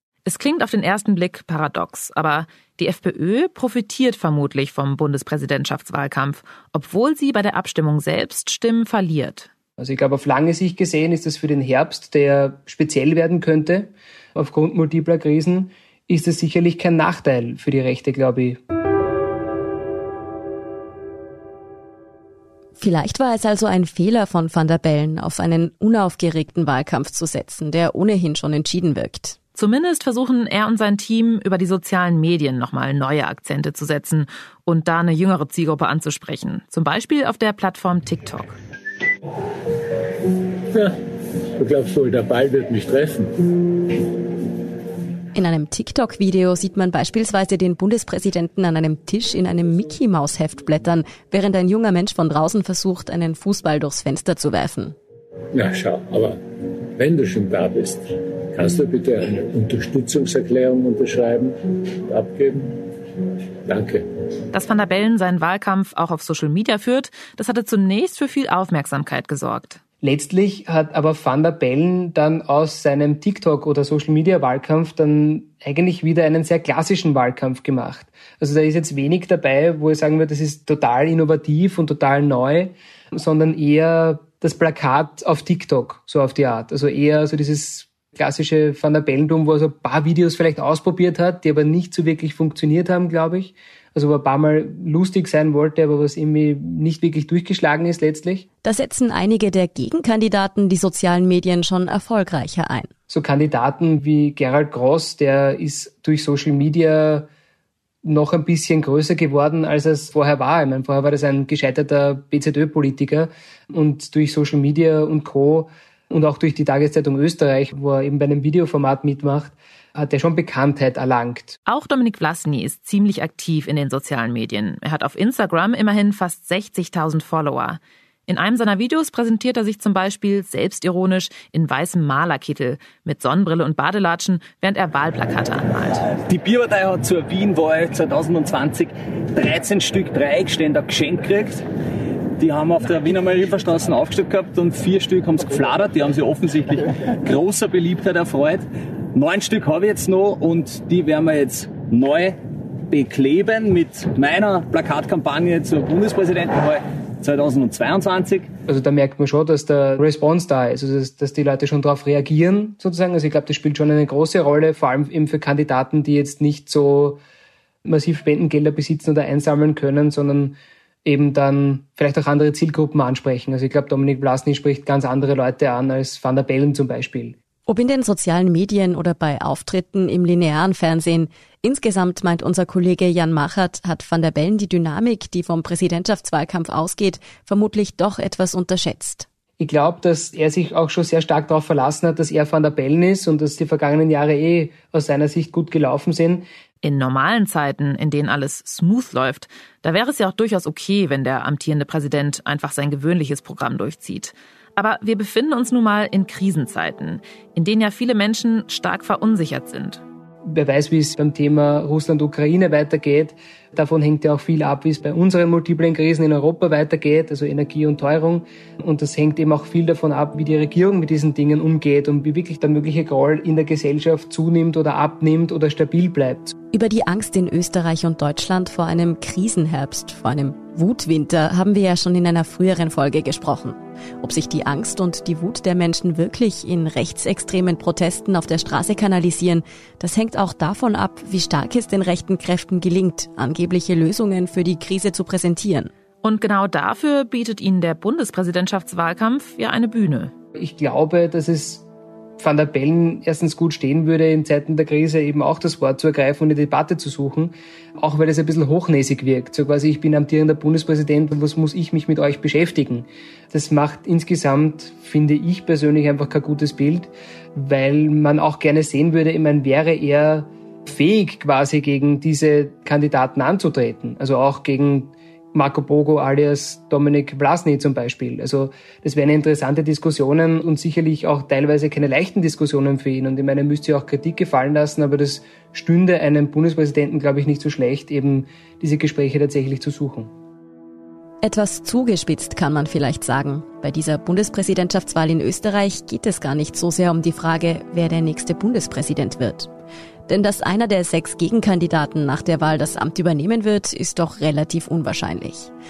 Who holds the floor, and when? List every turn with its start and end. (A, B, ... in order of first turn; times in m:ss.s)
0:00.2-0:09.5 A
0:09.8-0:18.6 B
0:22.8-0:29.4 C
0:29.6-0:38.6 A
0:41.6-0:43.3 D
0:45.4-0:55.0 C
0:55.5-0:56.4 D
0:57.0-1:02.8 D
1:03.7-1:04.0 D
1:04.5-1:09.8 A
1:10.0-1:38.4 B
1:38.6-1:42.9 C
1:43.1-1:47.3 B
1:48.0-2:01.6 B
2:01.7-2:16.0 A
2:16.2-2:21.6 E
2:22.4-2:32.4 E
2:32.9-2:38.5 E
2:38.7-2:47.2 B
2:47.8-2:57.4 B
2:57.7-3:09.3 C
3:09.6-3:16.4 B
3:16.8-3:30.0 A
3:30.5-3:46.6 B
3:46.7-4:05.9 C
4:06.2-4:10.3 A
4:10.6-4:11.8 B
4:12.4-4:50.3 B
4:51.4-4:59.7 C
5:00.3-5:05.7 C